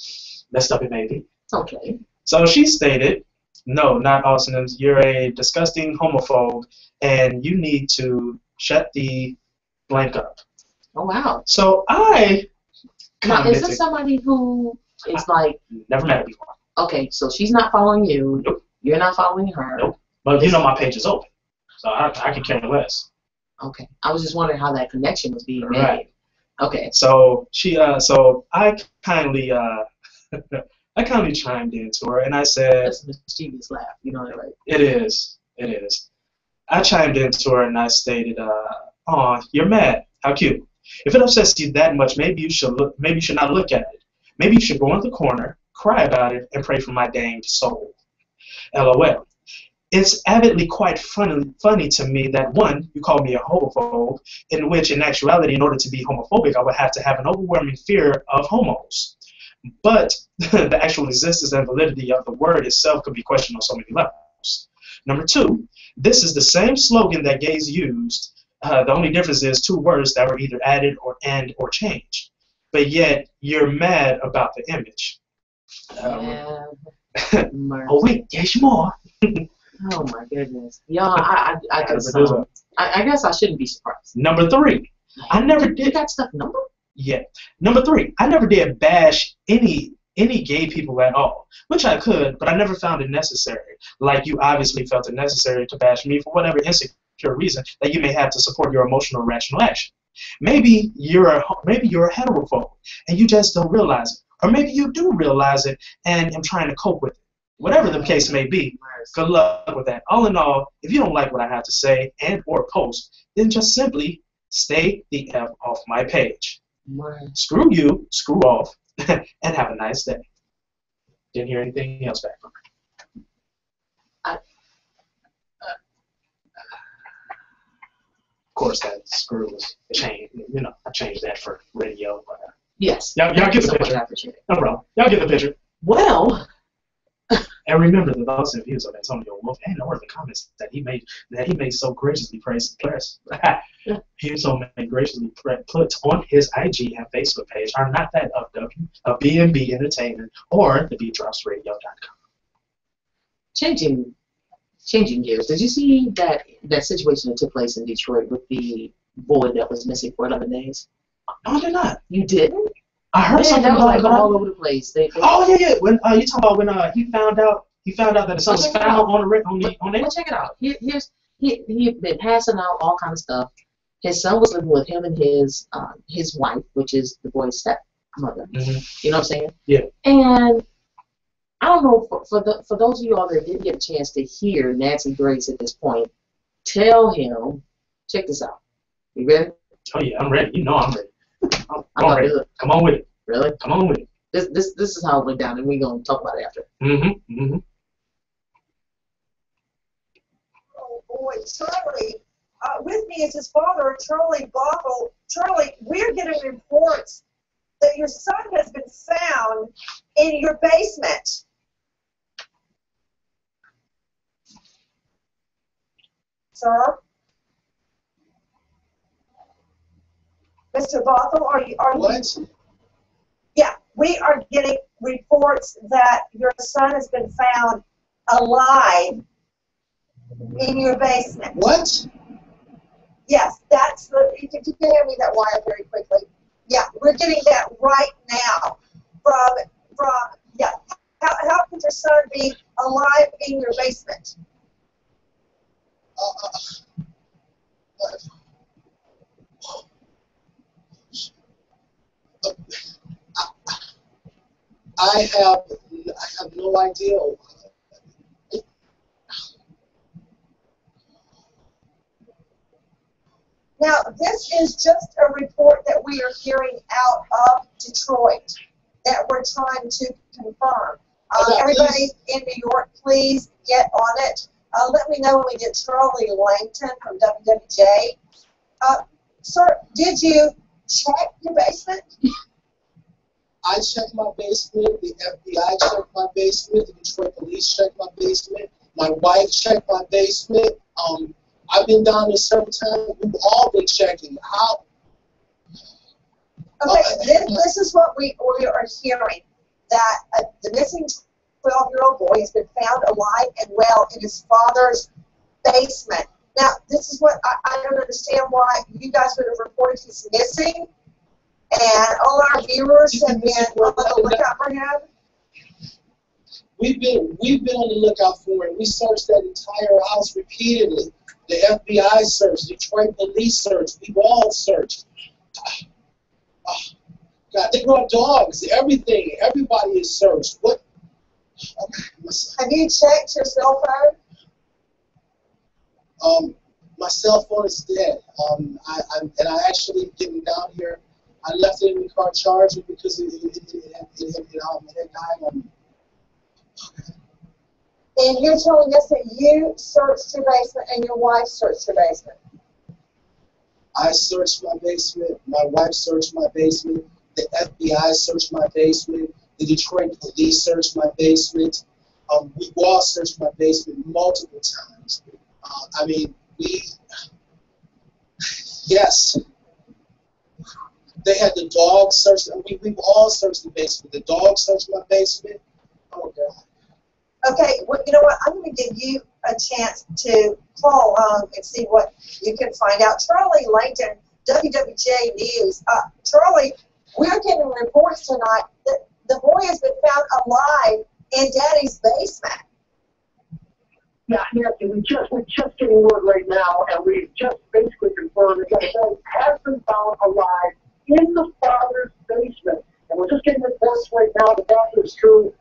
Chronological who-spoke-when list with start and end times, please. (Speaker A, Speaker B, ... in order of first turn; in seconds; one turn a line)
Speaker A: 0.5-1.2
Speaker B: 1.5-2.0
Speaker A: 2.2-9.4
Speaker A: 9.9-10.4
Speaker B: 10.9-11.4
Speaker A: 11.5-12.5
Speaker A: 13.2-13.8
Speaker B: 13.2-15.6
Speaker A: 15.7-16.6
Speaker B: 16.8-20.6
Speaker A: 19.8-21.3
Speaker A: 21.8-23.1
Speaker B: 23.6-26.1
Speaker A: 25.6-26.0
Speaker B: 26.6-26.9
Speaker A: 26.9-32.9
Speaker B: 32.8-34.5
Speaker A: 34.7-36.0
Speaker A: 36.7-47.9
Speaker A: 48.7-49.3
Speaker A: 49.9-59.1
Speaker A: 59.8-75.2
Speaker A: 75.9-76.4
Speaker B: 76.0-76.9
Speaker A: 77.2-79.5
Speaker B: 77.5-78.2
Speaker B: 79.8-84.1
Speaker A: 81.8-82.5
Speaker A: 84.1-86.0
Speaker B: 85.2-86.7
Speaker A: 87.0-116.6
Speaker B: 107.6-109.2
Speaker B: 116.9-117.4
Speaker A: 117.3-120.2
Speaker A: 121.3-122.6
Speaker A: 128.6-132.5
Speaker B: 132.8-134.4
Speaker A: 133.2-134.0
Speaker A: 134.5-135.6
Speaker B: 135.8-136.5
Speaker A: 137.7-143.6
Speaker A: 144.2-152.2
Speaker B: 153.5-154.1
Speaker B: 154.8-160.9
Speaker A: 161.4-162.0
Speaker B: 162.1-162.7
Speaker A: 163.1-164.3
Speaker B: 163.3-165.4
Speaker A: 165.2-170.1
Speaker B: 168.5-169.1
Speaker B: 169.6-173.5
Speaker B: 174.0-179.5
Speaker A: 178.5-178.9
Speaker B: 180.0-180.6
Speaker B: 181.6-186.1
Speaker B: 186.7-188.6
Speaker B: 189.2-189.6
Speaker A: 189.9-191.1
Speaker A: 191.7-193.1
Speaker B: 191.9-192.5
Speaker B: 193.3-193.6
Speaker A: 193.6-194.1
Speaker B: 194.3-196.7
Speaker A: 196.8-197.6
Speaker C: 200.7-207.2
Speaker C: 207.8-211.4
Speaker C: 216.5-217.0
Speaker C: 220.7-222.2
Speaker D: 221.9-222.4
Speaker C: 223.6-229.2
Speaker C: 230.6-231.6
Speaker D: 231.5-232.1
Speaker C: 233.3-244.3
Speaker D: 246.2-246.8
Speaker D: 248.0-248.2
Speaker D: 252.4-252.7
Speaker D: 253.4-253.8
Speaker D: 255.0-257.6
Speaker C: 263.8-278.2
Speaker D: 271.4-272.1
Speaker C: 278.8-282.1
Speaker D: 283.6-294.8
Speaker C: 296.8-305.1
Speaker D: 296.9-297.6
Speaker C: 305.6-310.9
Speaker C: 311.7-315.1
Speaker D: 313.1-314.4
Speaker D: 316.8-325.0
Speaker D: 326.6-326.9
Speaker D: 327.5-330.8
Speaker D: 331.8-332.6
Speaker C: 332.6-334.2
Speaker D: 336.2-345.7
Speaker D: 346.8-347.1
Speaker C: 348.2-352.4
Speaker D: 353.9-367.0
Speaker D: 368.8-369.4
Speaker D: 371.2-375.6
Speaker D: 376.1-376.6
Speaker C: 377.4-392.6
Speaker E: 394.3-405.5